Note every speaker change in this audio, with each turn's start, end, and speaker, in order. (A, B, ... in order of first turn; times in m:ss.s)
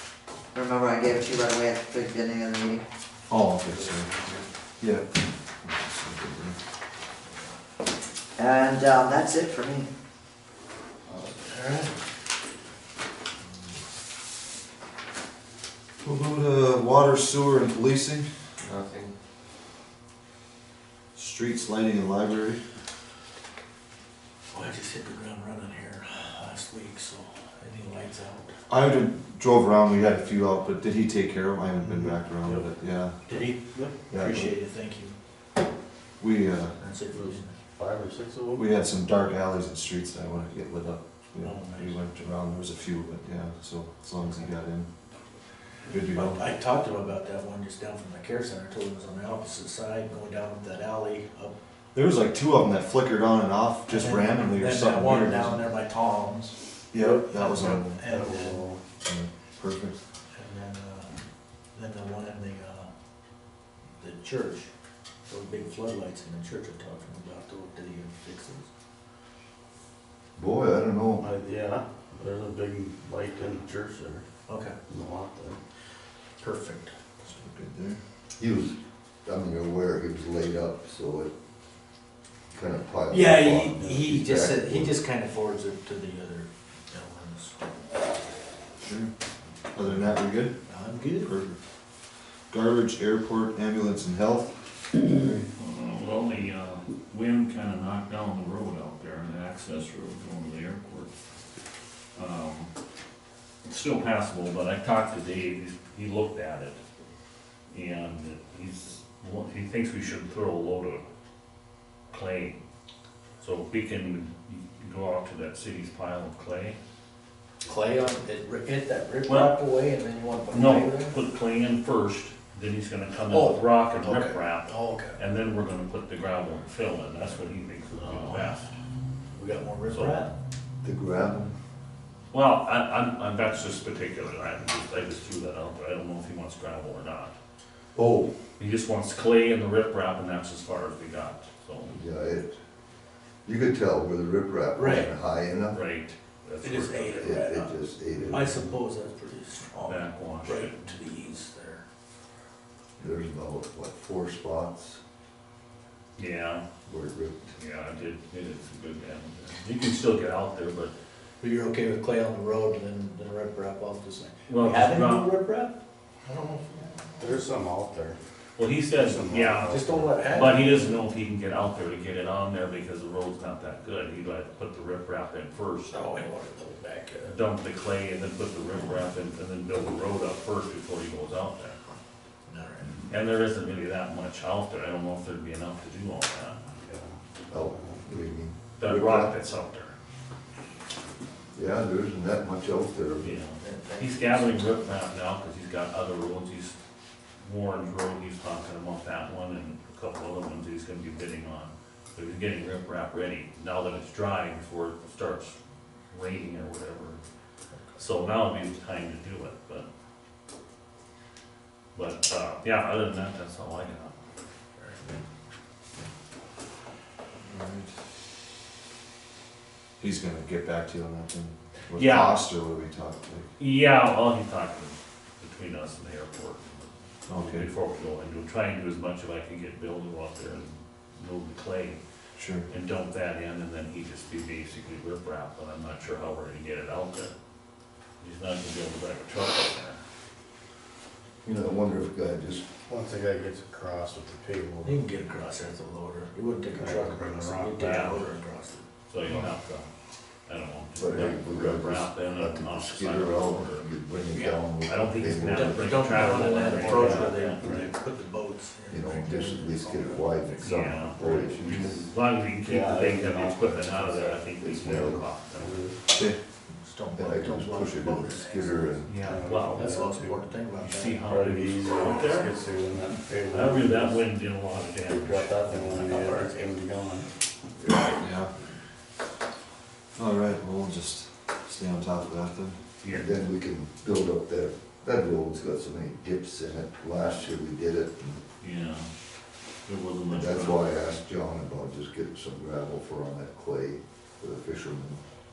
0:00.5-0:02.8 A
0:03.3-0:04.1 B
0:04.8-0:06.6 B
0:08.4-0:09.9 A
0:11.2-0:12.0 C
0:16.0-0:18.8 B
0:21.2-0:22.6 B
0:24.5-0:28.6 C
0:28.7-0:33.2 B
0:33.3-0:35.2 C
0:34.1-0:34.5 B
0:36.2-0:36.8 B
0:36.8-0:37.6 C
0:37.1-0:38.6 D
0:38.6-0:44.9 B
0:41.4-0:42.0 C
0:45.9-0:46.4 B
0:46.1-0:51.5 C
0:52.0-0:55.6 B
0:53.9-0:58.6 C
0:56.9-0:58.0 B
0:57.0-0:57.3 D
0:58.0-0:58.8 D
0:59.0-1:00.0 B
1:00.3-1:01.1 C
1:01.7-1:02.9 C
1:04.0-1:04.7 C
1:05.3-1:08.7 C
1:10.4-1:11.3 E
1:11.2-1:14.2 D
1:14.5-1:14.8 C
1:14.9-1:15.6 D
1:16.4-1:16.9 C
1:17.3-1:18.0 B
1:18.4-1:21.3 E
1:22.5-1:25.0 E
1:23.1-1:27.7 C
1:23.7-1:24.1 D
1:28.8-1:29.1 B
1:29.7-1:30.6 B
1:30.6-1:31.3 C
1:31.2-1:31.6 B
1:32.5-1:35.5 B
1:35.6-1:41.1 F
1:42.1-1:42.7 F
1:43.6-1:46.8 F
1:47.7-1:51.0 F
1:52.1-1:52.6 F
1:53.4-1:56.8 F
1:57.6-2:01.2 C
1:59.3-1:59.6 F
2:00.5-2:08.7 F
2:03.3-2:05.2 C
2:08.0-2:08.7 C
2:09.3-2:10.3 C
2:09.8-2:10.2 F
2:10.8-2:11.6 E
2:12.3-2:17.4 F
2:18.0-2:18.3 E
2:18.6-2:22.0 F
2:21.9-2:22.5 E
2:23.4-2:25.8 E
2:24.8-2:25.1 C
2:25.7-2:27.4 F
2:26.6-2:31.8 C
2:27.2-2:28.8 E
2:29.9-2:31.0 F
2:33.0-2:35.0 E
2:36.2-2:36.6 F
2:36.9-2:37.6 E
2:37.6-2:40.9 F
2:41.4-2:45.7 C
2:44.5-2:45.4 F
2:46.3-2:47.4 C
2:47.2-2:48.2 D
2:48.6-2:56.0 F
2:48.9-2:50.3 D
2:49.7-2:51.0 C
2:55.9-2:57.4 C
2:57.3-3:01.8 F
3:02.5-3:03.0 C
3:03.1-3:06.6 F
3:06.8-3:07.2 D
3:07.5-3:09.4 E
3:07.7-3:08.0 D
3:08.8-3:10.0 F
3:11.6-3:13.4 E
3:13.2-3:16.8 F
3:13.6-3:14.9 C
3:17.4-3:25.6 F
3:26.1-3:27.2 F
3:27.7-3:28.0 C
3:28.0-3:29.9 F
3:31.9-3:34.2 F
3:34.8-3:35.2 C
3:37.4-3:37.9 B
3:40.0-3:43.5 B
3:42.0-3:42.4 F
3:43.6-3:52.0 F
3:47.3-3:47.7 B
3:52.4-3:52.7 B
3:52.7-3:57.3 F
3:58.2-4:00.0 F
4:01.4-4:02.6 E
4:02.9-4:05.0 D
4:04.8-4:08.8 C
4:06.7-4:07.8 D
4:07.8-4:08.2 F
4:09.1-4:09.9 F
4:10.5-4:17.8 F
4:11.0-4:17.1 E
4:15.4-4:21.5 C
4:16.4-4:17.6 D
4:18.9-4:22.1 E
4:20.6-4:25.8 F
4:21.2-4:21.9 D
4:22.6-4:26.0 D
4:24.6-4:25.3 E
4:26.1-4:26.4 B
4:26.8-4:29.0 C
4:27.2-4:29.2 E
4:29.1-4:29.9 F
4:29.2-4:30.6 D
4:29.6-4:31.4 C
4:30.8-4:32.5 F
4:31.2-4:34.3 D
4:33.5-4:36.5 F
4:34.9-4:37.3 D
4:36.1-4:36.7 C
4:37.8-4:38.2 E
4:38.2-4:38.5 B
4:40.2-4:42.8 B
4:43.0-4:43.3 F
4:43.1-4:48.4 E
4:48.6-4:49.1 F
4:49.8-4:50.9 F
4:50.3-4:55.2 E